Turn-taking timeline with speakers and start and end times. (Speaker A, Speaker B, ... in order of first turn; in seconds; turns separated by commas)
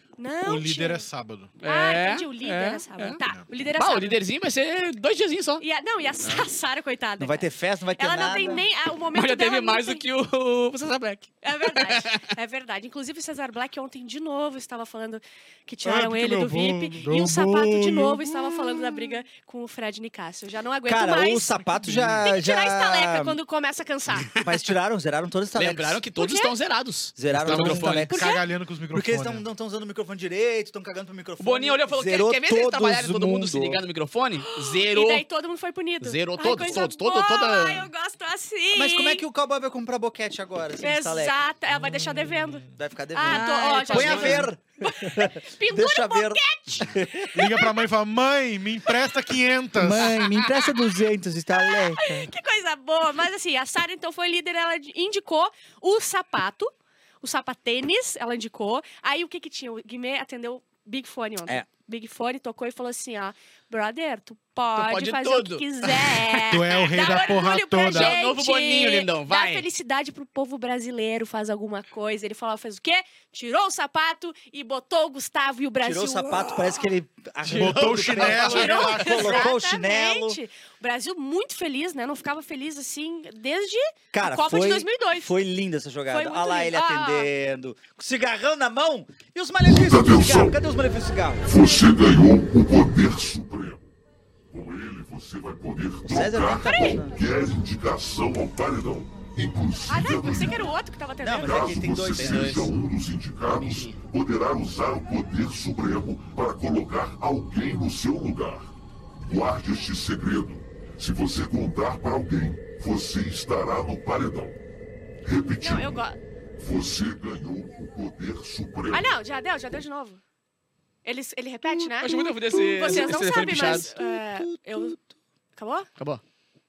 Speaker A: 0.2-1.0, Speaker B: 0.4-1.5, Speaker C: 1.6-3.2, Speaker A: 1.6-4.2, Speaker C: 3.8-5.6, Speaker A: 5.6-10.0, Speaker D: 7.2-8.7, Speaker C: 9.1-12.2, Speaker A: 11.4-24.3, Speaker C: 16.2-16.8, Speaker B: 17.0-18.1, Speaker C: 18.7-18.9, Speaker D: 20.9-23.4, Speaker C: 24.1-24.6, Speaker D: 24.4-26.0, Speaker C: 25.5-28.1, Speaker A: 26.2-26.5, Speaker D: 27.2-28.3, Speaker B: 27.5-29.5, Speaker A: 28.1-28.4, Speaker D: 28.9-33.8, Speaker C: 31.4-35.2, Speaker A: 34.4-39.2, Speaker C: 36.0-37.9, Speaker D: 38.7-41.4, Speaker A: 40.8-47.7, Speaker B: 41.8-42.4, Speaker D: 42.7-47.6, Speaker C: 43.2-44.5, Speaker B: 47.4-50.0, Speaker D: 49.7-52.3, Speaker A: 51.5-76.9, Speaker C: 64.7-69.7, Speaker B: 66.5-68.1, Speaker D: 75.8-80.4, Speaker B: 77.4-79.4, Speaker C: 77.5-78.5, Speaker A: 78.5-85.3, Speaker D: 84.1-91.5, Speaker A: 86.1-87.3, Speaker E: 89.7-90.5, Speaker E: 91.5-93.8, Speaker E: 94.5-100.6, Speaker D: 96.0-97.2, Speaker A: 96.5-97.0, Speaker A: 99.9-101.8, Speaker D: 101.2-102.7, Speaker E: 101.4-108.7, Speaker C: 102.2-102.8, Speaker C: 103.4-104.0, Speaker E: 109.3-114.6, Speaker E: 115.2-116.0, Speaker A: 115.6-116.2, Speaker E: 116.6-119.0, Speaker A: 118.9-120.2, Speaker A: 121.0-125.0, Speaker C: 121.6-124.6, Speaker D: 122.8-125.0, Speaker A: 125.5-125.9